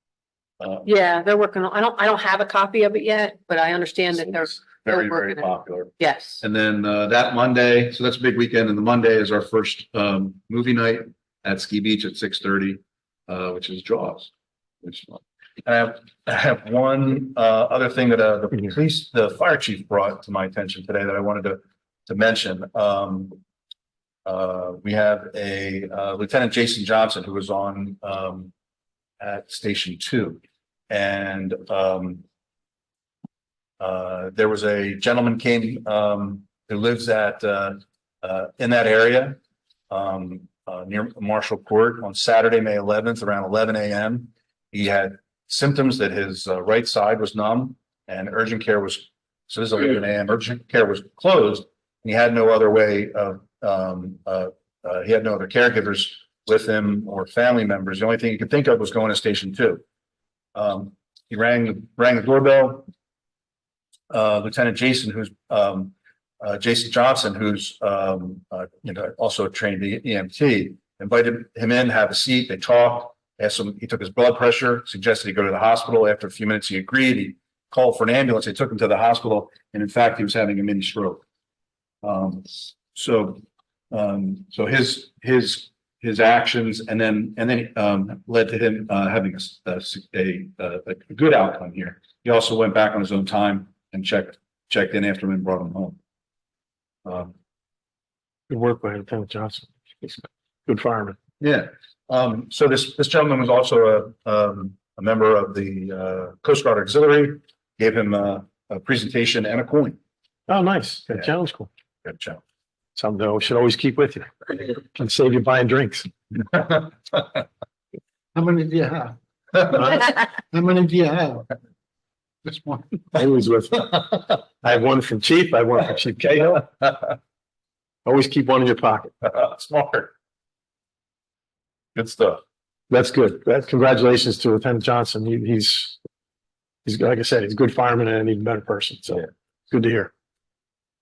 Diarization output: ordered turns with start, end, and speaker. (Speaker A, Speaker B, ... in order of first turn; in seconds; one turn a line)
Speaker A: 0.6-0.9
Speaker B: 0.8-6.4
Speaker A: 4.2-14.3
Speaker A: 14.8-23.4
Speaker A: 24.2-28.5
Speaker A: 29.2-30.4
Speaker A: 30.9-32.2
Speaker A: 33.8-39.4
Speaker A: 39.9-59.8
Speaker A: 60.5-62.9
Speaker A: 64.1-81.2
Speaker A: 82.0-96.0
Speaker A: 97.0-97.3
Speaker C: 98.5-101.2
Speaker A: 101.4-110.0
Speaker C: 110.5-111.7
Speaker A: 112.0-112.4
Speaker C: 113.0-116.1
Speaker D: 118.3-121.4
Speaker D: 122.5-123.1
Speaker C: 123.2-126.7
Speaker A: 126.3-127.1
Speaker C: 128.1-129.1
Speaker A: 129.2-130.1
Speaker A: 131.9-132.4
Speaker C: 132.9-136.0
Speaker C: 136.8-140.1